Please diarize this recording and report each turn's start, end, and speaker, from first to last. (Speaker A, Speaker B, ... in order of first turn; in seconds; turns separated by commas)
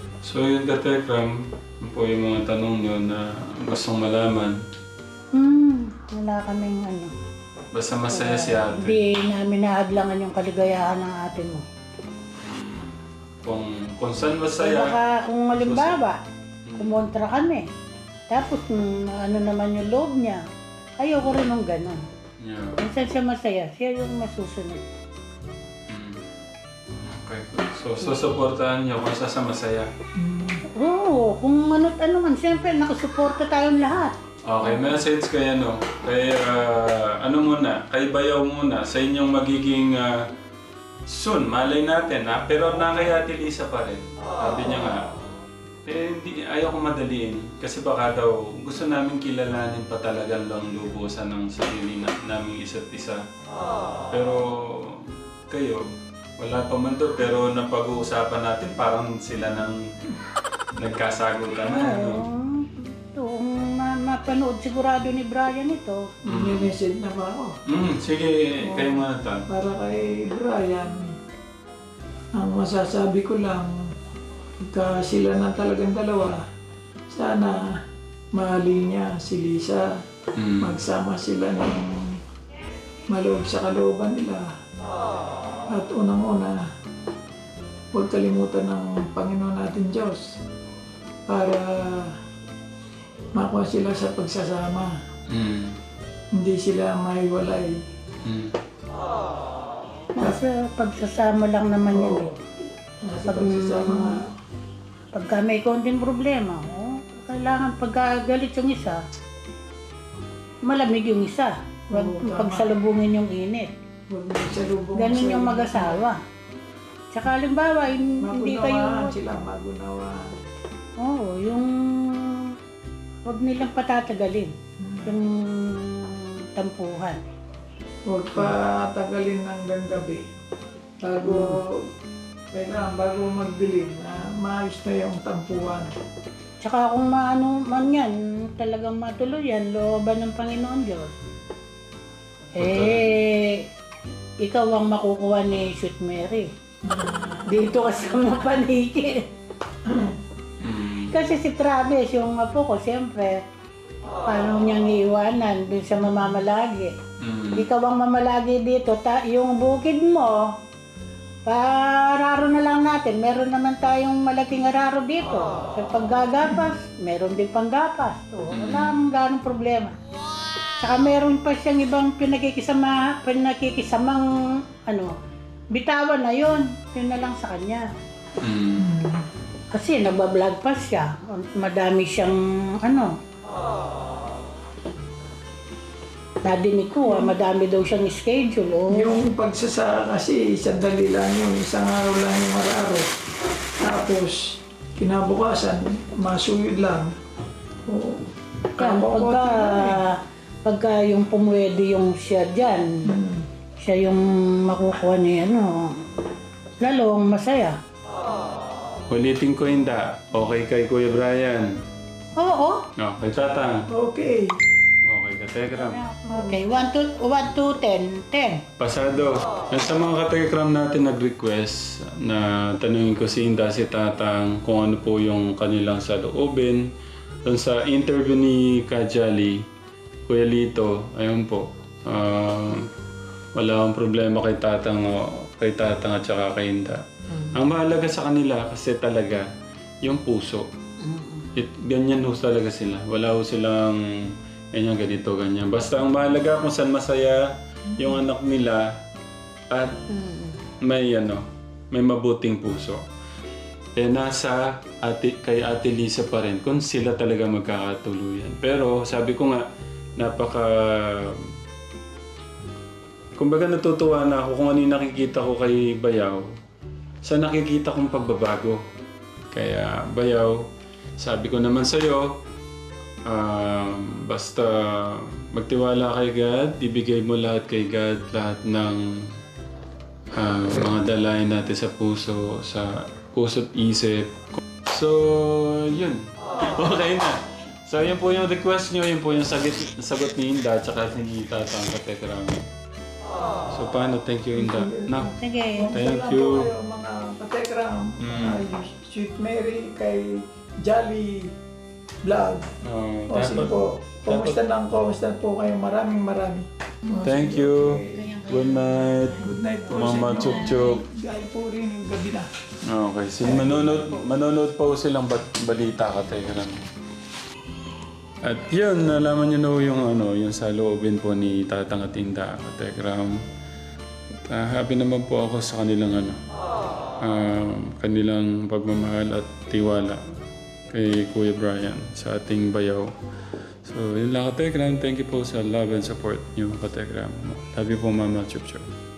Speaker A: 0.2-4.6, Speaker B: 5.3-7.1, Speaker A: 7.7-9.0, Speaker B: 8.1-11.6, Speaker A: 12.4-15.0, Speaker B: 14.6-16.2, Speaker A: 15.6-16.0, Speaker A: 16.7-17.0, Speaker B: 16.8-17.6, Speaker B: 18.3-20.4, Speaker B: 21.0-22.0, Speaker A: 22.4-22.8, Speaker B: 22.8-24.8, Speaker A: 25.9-26.2, Speaker A: 27.0-29.9, Speaker C: 30.2-30.6, Speaker B: 30.8-34.1, Speaker A: 34.5-40.3, Speaker A: 41.1-45.0, Speaker A: 45.9-53.2, Speaker A: 54.1-55.8, Speaker A: 56.4-59.8, Speaker A: 60.8-62.2, Speaker B: 61.6-66.0, Speaker A: 66.3-66.7, Speaker C: 66.3-67.5, Speaker A: 67.7-69.5, Speaker C: 68.7-71.2, Speaker C: 72.3-73.8, Speaker C: 74.6-76.4, Speaker C: 77.1-77.8, Speaker C: 78.3-79.9, Speaker A: 80.4-80.8, Speaker C: 80.6-82.2, Speaker C: 83.1-84.5, Speaker C: 85.7-86.6, Speaker C: 87.9-90.4, Speaker C: 91.3-92.2, Speaker C: 93.3-94.9, Speaker A: 95.3-95.8, Speaker C: 96.3-97.8, Speaker A: 98.2-98.5, Speaker B: 100.2-102.3, Speaker C: 101.9-102.3, Speaker C: 103.0-104.3, Speaker B: 103.3-104.2, Speaker B: 105.1-109.0, Speaker B: 110.7-113.7, Speaker C: 111.9-112.7, Speaker C: 114.1-116.0, Speaker B: 115.0-116.2, Speaker B: 117.1-119.1, Speaker C: 118.2-120.4, Speaker B: 121.0-122.5, Speaker B: 123.2-124.5, Speaker C: 124.8-125.2, Speaker B: 125.0-127.2, Speaker C: 128.1-130.2, Speaker C: 131.0-131.9, Speaker B: 131.2-131.6, Speaker C: 132.5-135.9, Speaker B: 136.6-141.1, Speaker B: 142.6-143.6, Speaker A: 142.6-143.1, Speaker B: 144.4-146.5, Speaker C: 146.8-147.4, Speaker B: 147.5-149.2, Speaker C: 149.8-150.2, Speaker A: 150.6-151.1, Speaker B: 151.1-153.4, Speaker B: 154.2-156.9, Speaker A: 157.2-157.7, Speaker B: 157.6-160.4, Speaker B: 161.5-169.9, Speaker A: 168.5-169.0, Speaker B: 170.8-174.2, Speaker B: 174.8-175.1, Speaker B: 175.7-177.8, Speaker A: 178.4-178.9, Speaker C: 178.8-179.3, Speaker B: 179.8-183.1, Speaker B: 186.4-189.1, Speaker C: 187.1-187.3, Speaker C: 188.9-193.1, Speaker C: 193.8-197.1, Speaker C: 197.9-200.0, Speaker B: 198.8-200.1, Speaker B: 200.7-202.9, Speaker C: 203.1-203.5, Speaker B: 203.8-206.0, Speaker B: 206.8-207.8, Speaker A: 209.1-211.8, Speaker B: 212.4-212.8, Speaker A: 213.0-213.9, Speaker C: 213.9-214.6, Speaker A: 215.1-216.0, Speaker B: 215.7-218.6, Speaker C: 216.3-216.6, Speaker A: 218.8-226.8, Speaker A: 227.5-229.6, Speaker A: 230.3-232.9, Speaker A: 233.6-239.4, Speaker A: 240.0-240.7, Speaker B: 241.0-241.5, Speaker A: 241.6-244.0, Speaker A: 244.7-248.9, Speaker A: 249.7-250.0, Speaker B: 250.1-250.6, Speaker A: 250.8-253.0, Speaker A: 254.0-259.6, Speaker A: 260.2-261.4, Speaker A: 263.4-266.4, Speaker A: 267.2-268.8, Speaker A: 269.5-270.6, Speaker A: 271.2-272.3, Speaker A: 273.3-279.1, Speaker A: 280.4-292.6, Speaker A: 293.7-295.4, Speaker C: 294.6-295.1, Speaker B: 295.4-295.9, Speaker C: 295.8-301.5, Speaker A: 295.9-296.7, Speaker A: 298.2-298.6, Speaker C: 302.2-302.7, Speaker A: 302.8-304.6, Speaker C: 303.3-308.2, Speaker A: 307.2-311.0, Speaker B: 308.0-311.0, Speaker C: 309.4-312.5, Speaker A: 312.9-316.9, Speaker C: 313.4-314.2, Speaker A: 318.4-323.4, Speaker A: 324.5-326.4, Speaker A: 327.2-330.2, Speaker A: 330.9-333.1, Speaker A: 333.8-338.9